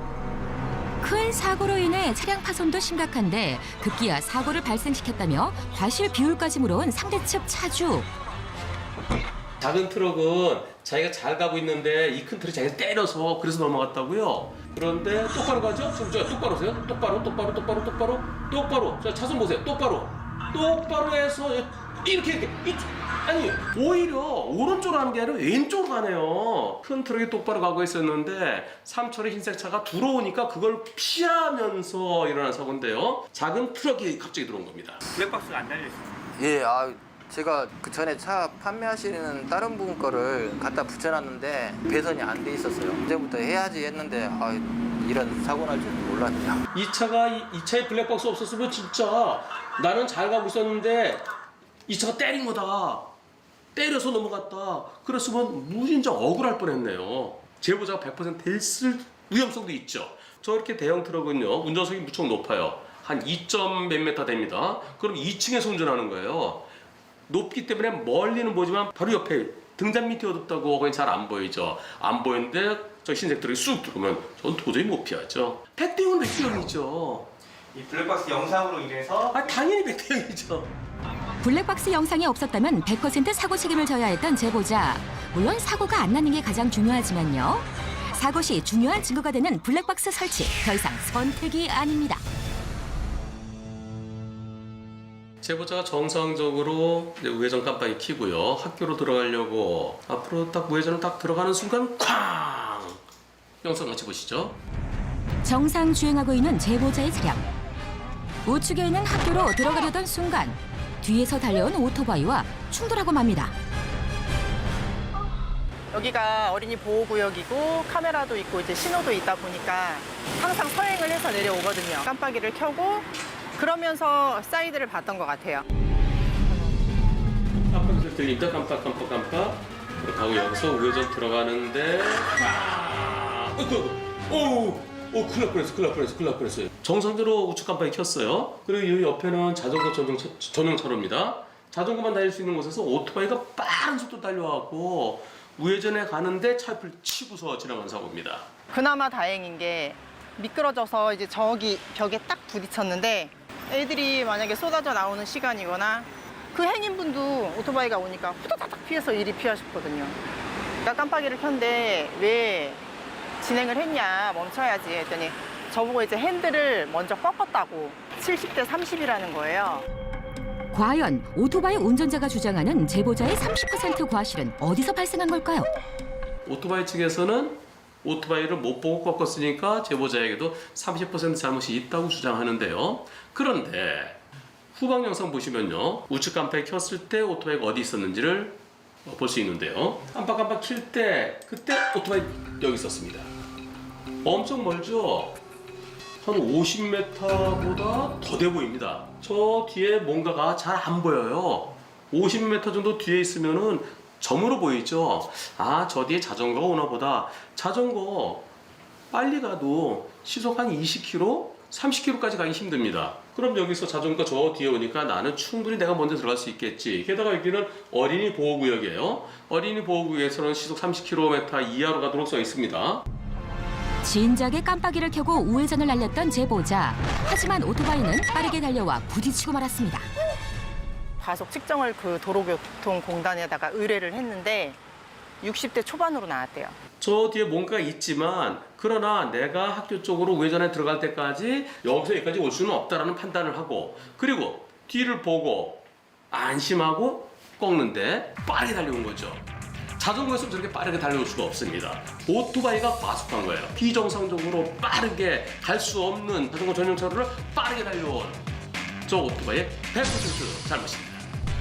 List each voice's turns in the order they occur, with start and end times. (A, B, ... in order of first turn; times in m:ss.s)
0:01.0-0:08.1 A
0:09.6-0:35.1 B
0:35.2-0:36.1 C
0:36.4-0:46.6 D
0:46.7-0:51.2 B
0:51.9-0:53.1 B
0:53.7-1:06.6 B
1:07.3-1:17.3 B
1:17.7-1:19.6 C
1:19.3-1:20.7 B
1:21.4-1:32.2 A
1:35.4-1:43.0 B
1:43.6-1:44.6 B
1:45.4-1:47.5 A
1:48.4-1:53.5 A
1:55.9-2:05.6 E
2:07.7-2:28.5 B
2:28.7-2:40.2 E
2:40.8-2:42.8 E
2:43.4-2:49.8 E
2:50.7-2:55.7 A
2:56.4-3:04.2 B
3:04.7-3:13.3 B
3:14.2-3:15.4 B
3:16.2-3:28.5 B
3:29.1-3:43.0 B
3:44.0-3:50.1 A
3:51.2-3:54.8 E
3:55.4-3:56.8 E
3:57.0-4:09.4 B
4:10.0-4:18.4 B
4:19.0-4:21.2 B